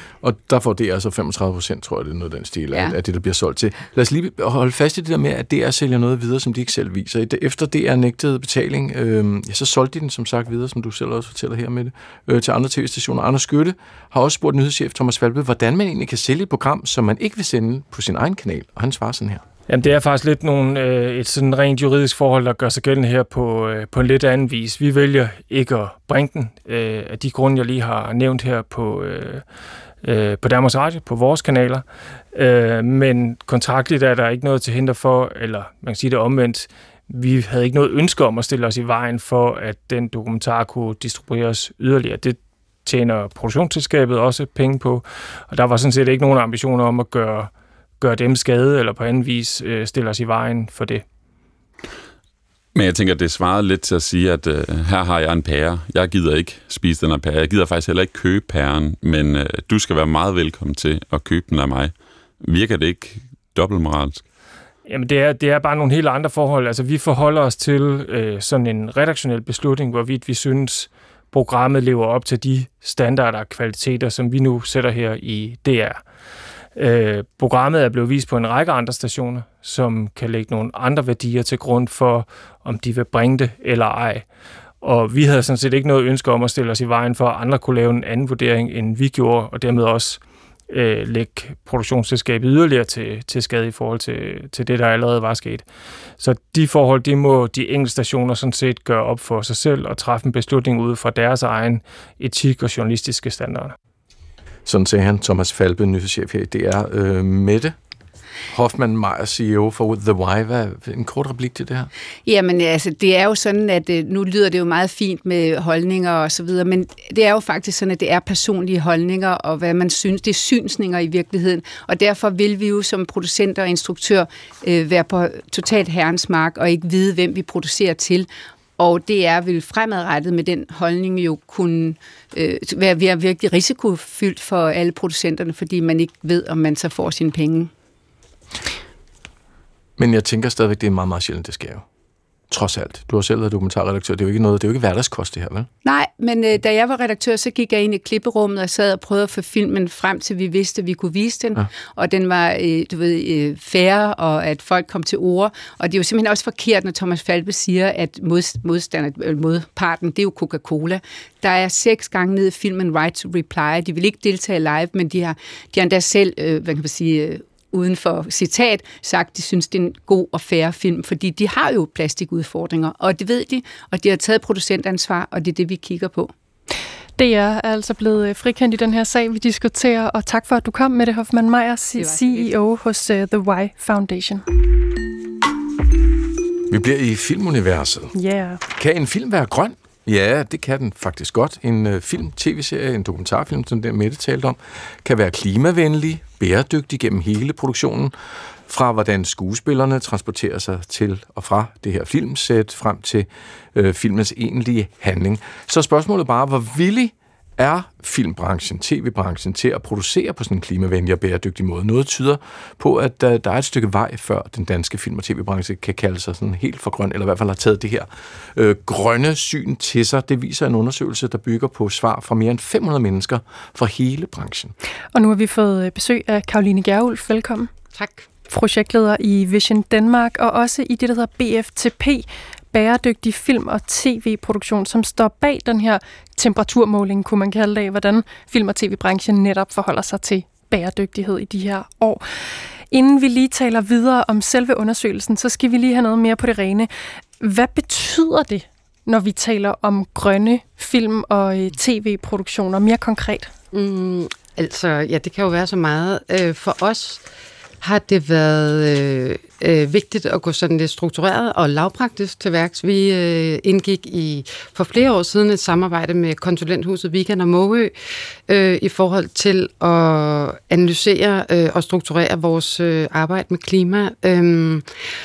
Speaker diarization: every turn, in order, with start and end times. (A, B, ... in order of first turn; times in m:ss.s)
0:00.2-0:19.4 A
0:02.7-0:03.0 B
0:19.7-0:29.4 C
0:30.0-0:51.0 C
0:52.7-1:04.2 D
1:04.8-1:16.0 C
1:16.7-1:24.2 C
1:24.8-1:35.6 C
1:36.2-1:43.7 C
1:44.6-1:47.7 A
1:48.5-1:51.9 A
1:52.2-2:17.7 B
2:20.0-2:21.8 A
2:22.5-2:25.7 A
2:25.8-2:56.3 B
2:57.2-3:04.4 E
3:02.0-3:02.5 B
3:06.7-3:08.1 A
3:08.1-3:08.6 E
3:08.7-3:18.1 A
3:18.7-3:44.7 A
3:45.1-3:47.7 E
3:47.9-3:48.3 F
3:48.5-4:02.2 E
4:02.9-4:06.9 E
4:07.4-4:13.5 E
4:13.7-4:17.2 F
4:17.8-4:27.9 F
4:28.5-4:34.9 F